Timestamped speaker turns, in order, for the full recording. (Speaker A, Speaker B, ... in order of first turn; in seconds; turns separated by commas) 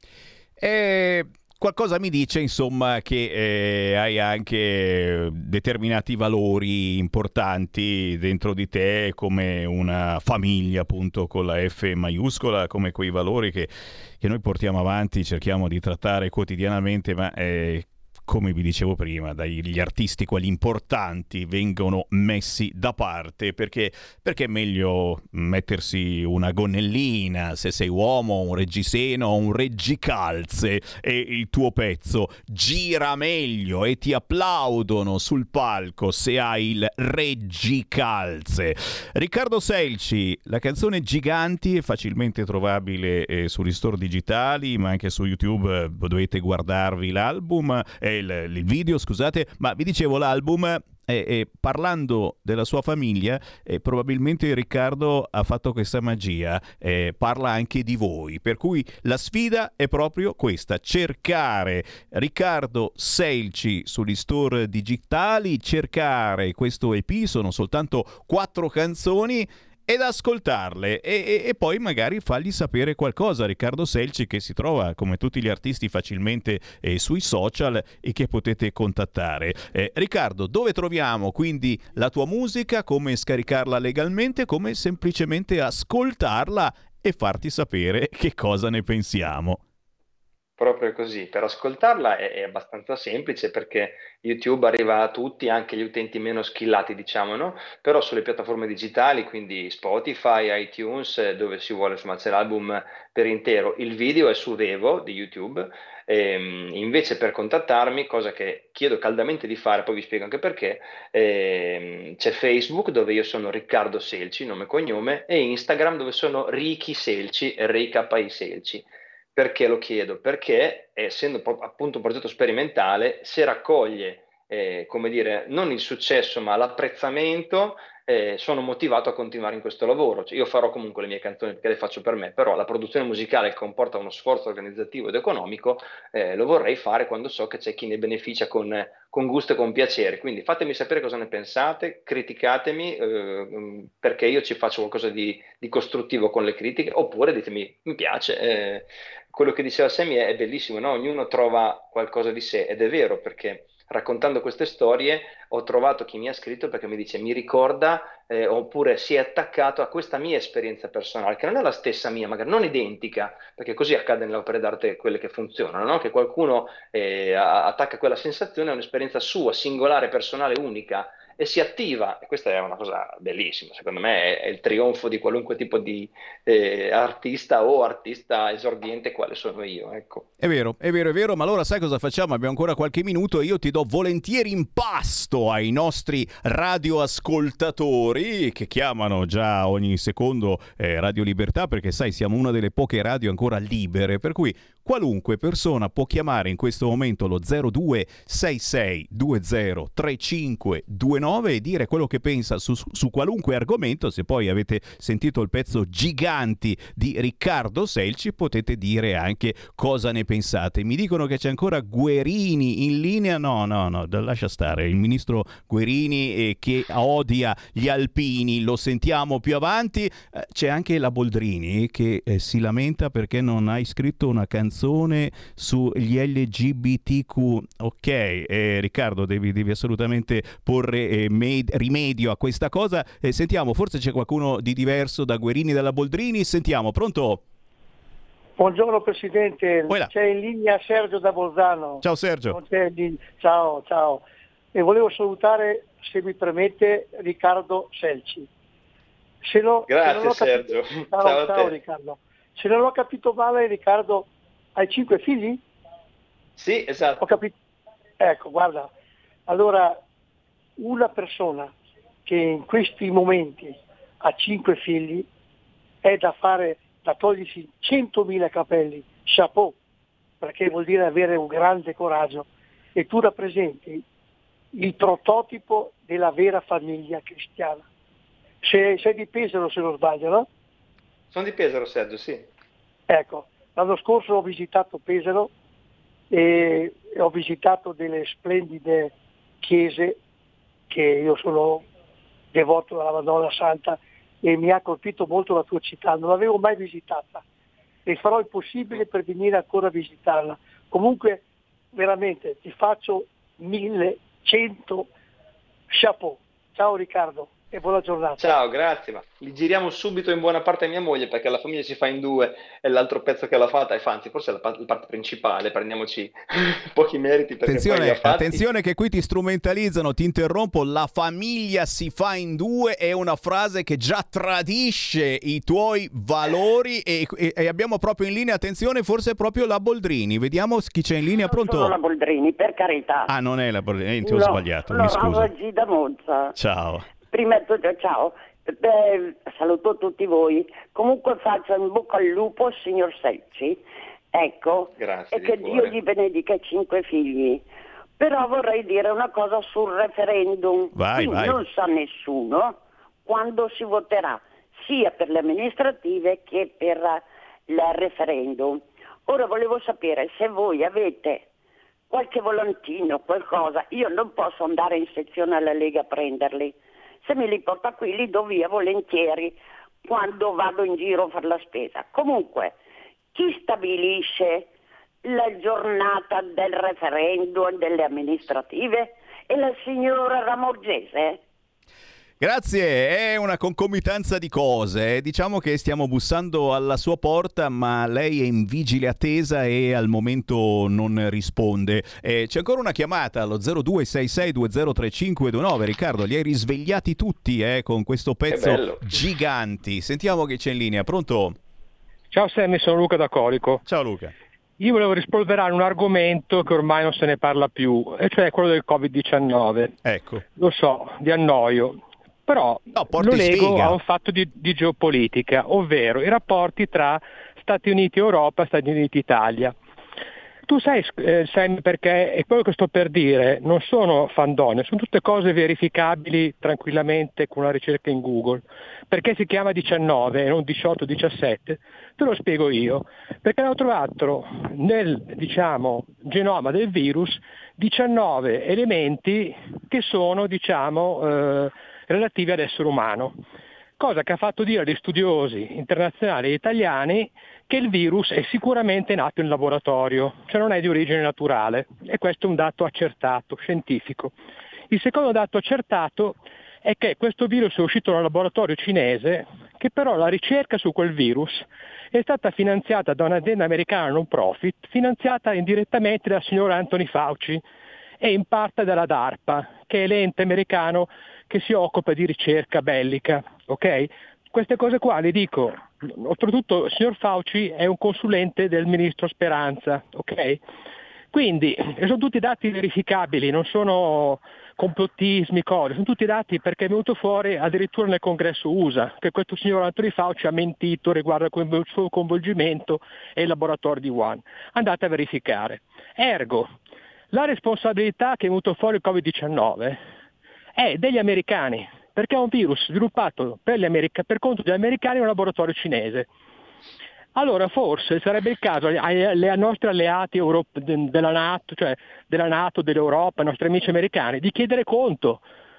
Speaker A: 0.6-89.6, Speaker B: 90.6-180.2, Speaker A: 180.4-237.4, Speaker C: 238.6-244.2, Speaker A: 242.0-242.6, Speaker C: 244.7-248.5, Speaker C: 249.4-255.6, Speaker B: 249.9-251.7, Speaker B: 256.6-257.3, Speaker C: 257.2-257.5, Speaker C: 258.2-258.9, Speaker C: 259.5-260.0, Speaker C: 260.8-261.7, Speaker C: 262.2-265.2, Speaker C: 266.0-269.7, Speaker C: 270.4-274.0, Speaker C: 274.7-277.8, Speaker C: 278.6-280.5, Speaker B: 281.3-282.4, Speaker C: 283.1-285.5, Speaker C: 286.3-290.2, Speaker C: 290.9-291.8, Speaker C: 292.5-297.4, Speaker C: 298.1-301.4, Speaker C: 301.9-305.1, Speaker C: 305.9-308.5, Speaker B: 308.4-318.6, Speaker A: 317.6-331.9, Speaker D: 331.5-333.3, Speaker A: 333.3-335.5, Speaker D: 334.2-336.5, Speaker A: 336.5-337.1, Speaker D: 337.3-343.8, Speaker D: 344.3-347.6, Speaker B: 345.0-346.0, Speaker D: 348.2-361.4, Speaker A: 350.9-351.6, Speaker D: 362.1-366.7, Speaker D: 367.2-369.5, Speaker D: 370.0-372.7, Speaker D: 373.3-374.6, Speaker D: 375.2-381.4, Speaker A: 382.4-401.6, Speaker B: 398.5-399.0, Speaker E: 402.3-403.8, Speaker A: 403.9-404.3, Speaker E: 404.8-409.9, Speaker A: 410.0-410.4, Speaker E: 410.6-419.7, Speaker A: 412.9-414.0, Speaker E: 420.7-443.4, Speaker E: 444.0-454.3, Speaker E: 454.9-467.6, Speaker E: 468.2-480.6, Speaker E: 481.3-496.7, Speaker E: 497.3-500.0, Speaker E: 500.8-506.2, Speaker E: 507.4-515.4